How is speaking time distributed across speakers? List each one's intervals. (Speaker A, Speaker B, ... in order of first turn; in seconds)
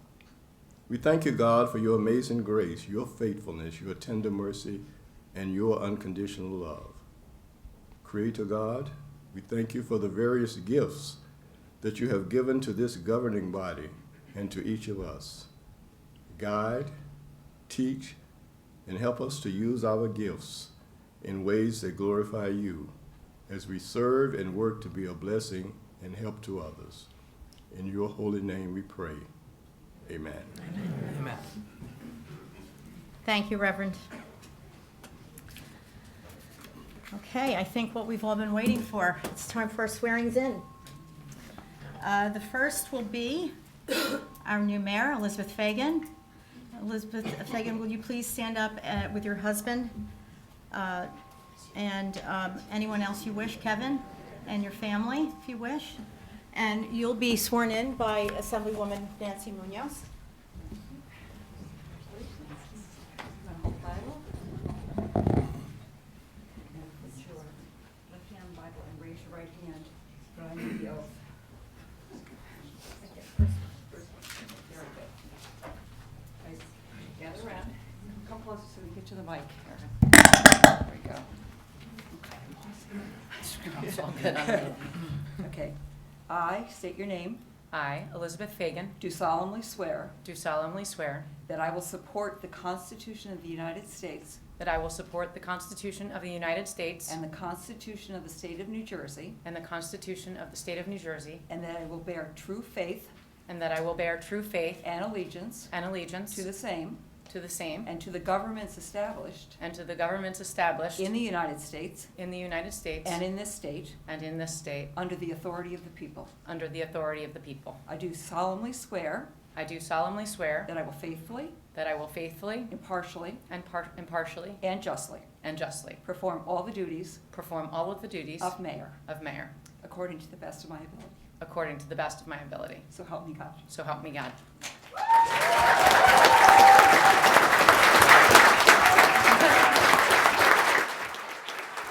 Speaker A: 0.9-7.0, 8.0-11.2, 11.8-15.5, 16.3-16.9, 17.7-18.2, 18.9-22.9, 23.5-27.1, 27.7-29.3, 30.1-30.6
Speaker B: 33.2-34.0, 37.1-40.6, 42.0-43.5, 44.2-46.1, 46.7-50.0, 50.7-51.1, 51.7-56.0, 56.5-60.0
Speaker C: 61.9-64.2, 66.7-71.1, 73.0-75.2, 76.4-81.3, 82.1-85.8, 86.3-87.4, 89.0-90.2, 91.4-94.4, 97.0-99.4, 101.5-103.1, 104.8-105.7, 106.3-107.0, 107.8-109.6, 111.0-112.1, 113.0-114.0, 114.9-116.4, 117.9-119.3, 120.7-121.6, 122.7-123.4, 124.6-125.3, 126.0-127.2, 128.4-129.0, 129.8-131.2, 132.9-133.6
Speaker D: 83.5-85.1, 87.7-89.0, 90.2-91.3, 94.6-97.2, 99.4-101.4, 103.5-104.8, 105.7-106.5, 107.3-107.9, 109.6-111.1, 112.2-113.2, 114.0-114.9, 116.4-117.8, 119.5-120.7, 121.7-122.7, 123.5-124.6, 125.4-126.0, 127.3-129.5, 131.4-132.9, 133.7-134.4